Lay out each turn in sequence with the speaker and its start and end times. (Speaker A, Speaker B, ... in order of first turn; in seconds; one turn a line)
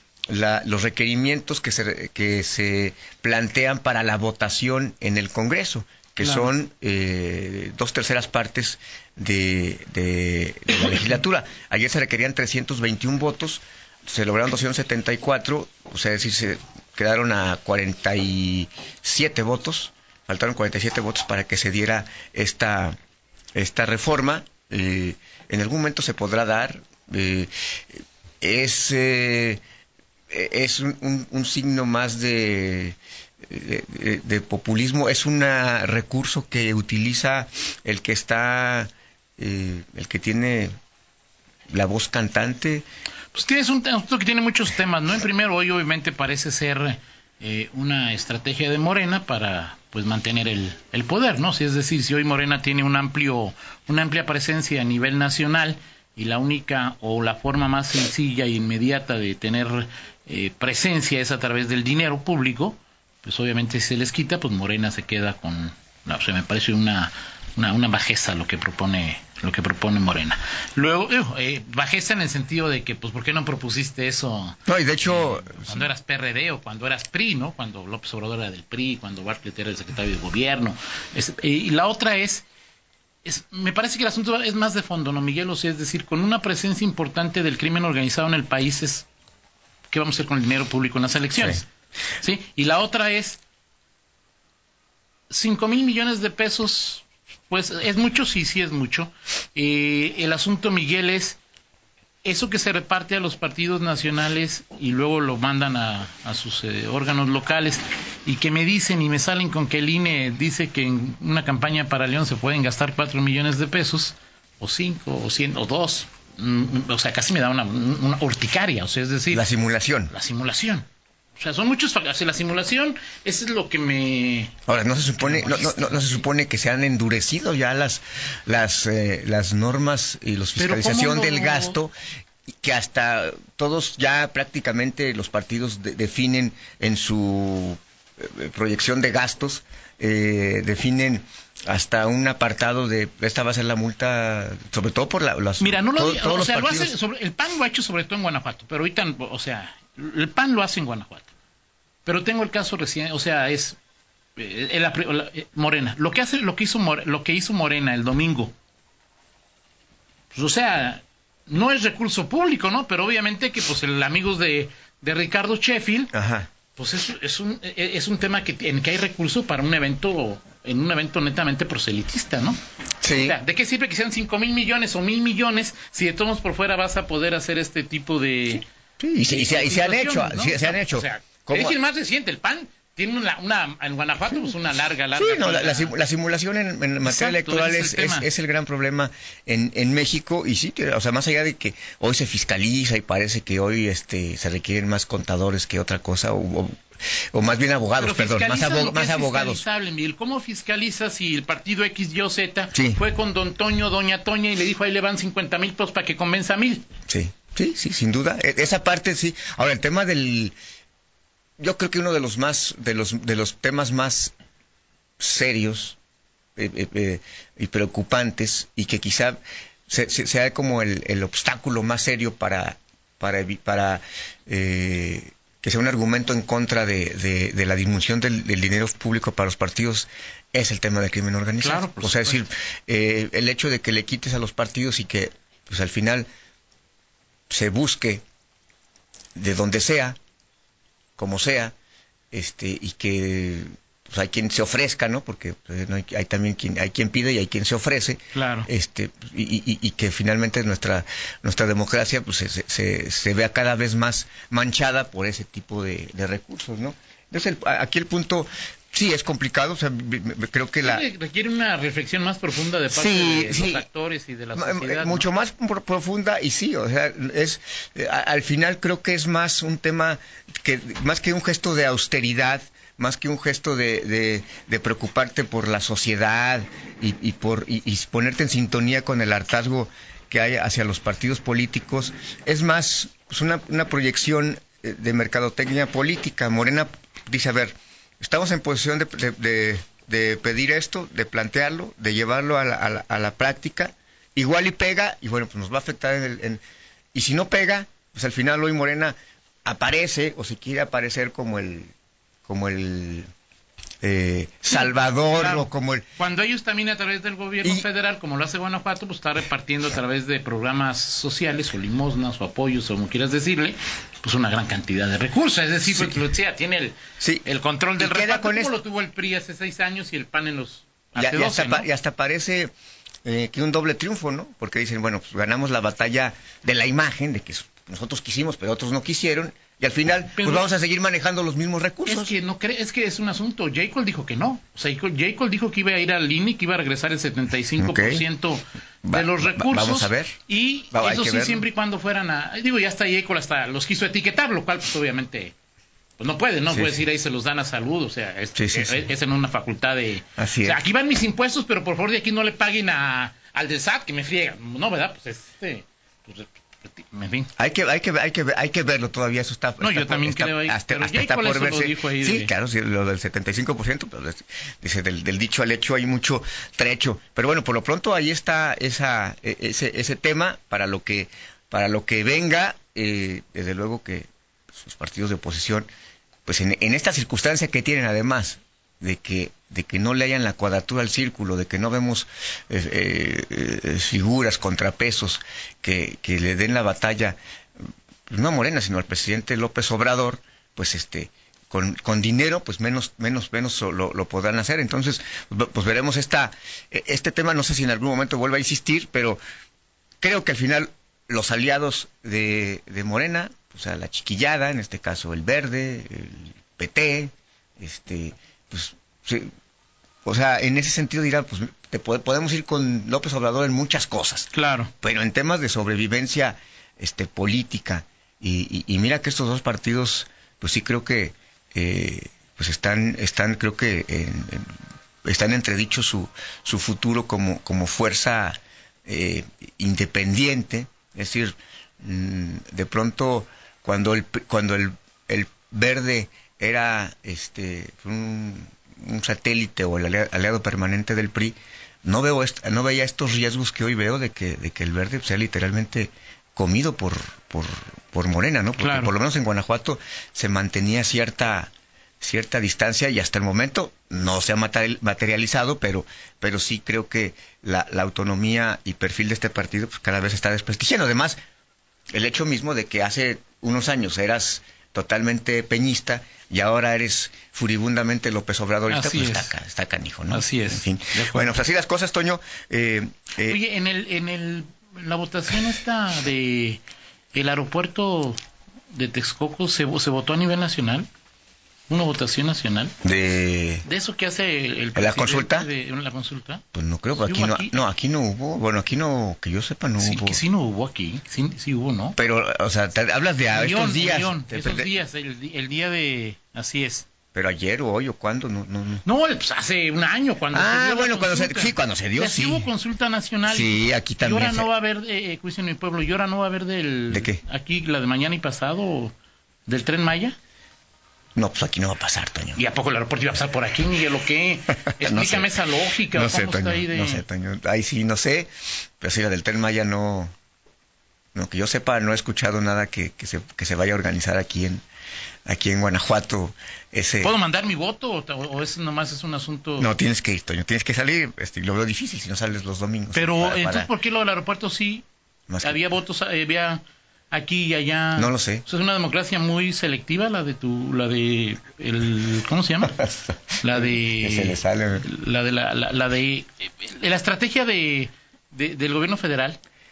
Speaker A: 0.3-23.0
Speaker B: 6.2-6.5
Speaker A: 23.6-29.6
Speaker A: 30.3-40.7
Speaker A: 41.7-42.8
Speaker B: 43.3-82.4
Speaker A: 74.7-75.9
Speaker B: 83.2-89.1
Speaker B: 89.9-93.4
Speaker B: 95.3-101.4
Speaker B: 102.2-119.5
Speaker A: 119.3-120.1
Speaker B: 120.1-124.5
Speaker A: 124.7-131.9
Speaker B: 125.2-126.2
Speaker B: 130.6-131.8
Speaker A: 132.5-146.9
Speaker B: 145.6-151.3
Speaker B: 152.1-153.8
Speaker B: 154.4-158.5
Speaker B: 160.3-166.1
Speaker A: 166.1-166.5
Speaker B: 166.8-178.6
Speaker A: 173.0-173.4
Speaker A: 179.0-181.8
Speaker B: 179.3-185.9
Speaker A: 185.1-196.8
Speaker B: 187.0-188.3
Speaker A: 197.3-199.6
Speaker B: 197.9-206.8
Speaker A: 202.7-203.0
Speaker A: 207.1-210.5
Speaker A: 211.6-214.3
Speaker A: 215.2-216.0
Speaker A: 216.6-236.3
Speaker B: 231.6-232.4
Speaker A: 237.5-238.2
Speaker A: 239.4-240.2
Speaker A: 241.2-241.7
Speaker A: 242.3-261.1
Speaker B: 248.3-248.7
Speaker B: 260.8-265.3
Speaker A: 262.9-263.9
Speaker A: 264.6-296.6
Speaker A: 297.1-301.9
Speaker A: 302.4-303.3
Speaker A: 304.0-306.1
Speaker B: 304.7-321.9
Speaker A: 315.9-316.2
Speaker A: 317.2-317.4
Speaker A: 318.0-318.7
Speaker A: 321.2-322.7
Speaker A: 323.2-332.4
Speaker B: 330.3-330.7
Speaker B: 332.1-345.5
Speaker A: 337.8-338.3
Speaker A: 339.1-340.4
Speaker A: 340.9-341.6
Speaker B: 346.2-357.5
Speaker A: 346.7-347.0
Speaker A: 348.6-349.1
Speaker A: 350.4-350.8
Speaker A: 357.6-375.9
Speaker B: 359.8-362.5
Speaker A: 376.4-387.4
Speaker A: 388.3-399.4
Speaker A: 400.2-409.5
Speaker A: 410.2-424.7
Speaker B: 414.5-414.9
Speaker A: 425.2-461.4
Speaker B: 448.8-449.1
Speaker A: 462.1-473.6
Speaker B: 468.9-469.6
Speaker B: 470.3-471.6
Speaker B: 473.4-476.8
Speaker B: 477.3-478.4
Speaker B: 478.9-481.1
Speaker B: 481.9-482.9
Speaker A: 483.0-483.9
Speaker B: 483.8-486.6
Speaker A: 484.9-485.7
Speaker A: 486.7-490.4
Speaker B: 487.2-487.8
Speaker B: 490.0-492.2
Speaker A: 492.2-495.0
Speaker B: 493.5-497.1
Speaker A: 497.3-499.0
Speaker B: 499.1-509.1
Speaker A: 500.5-502.7
Speaker A: 503.4-504.7
Speaker A: 507.1-507.4
Speaker B: 509.7-510.4
Speaker A: 511.4-512.6
Speaker B: 512.5-517.2
Speaker A: 514.9-515.6
Speaker A: 516.1-520.3
Speaker A: 521.4-524.8
Speaker A: 525.5-527.4
Speaker B: 527.2-529.9
Speaker A: 529.8-533.9
Speaker B: 533.1-535.0
Speaker A: 535.5-535.9
Speaker B: 535.6-543.0
Speaker A: 538.1-538.6
Speaker A: 542.9-545.1
Speaker B: 543.6-549.6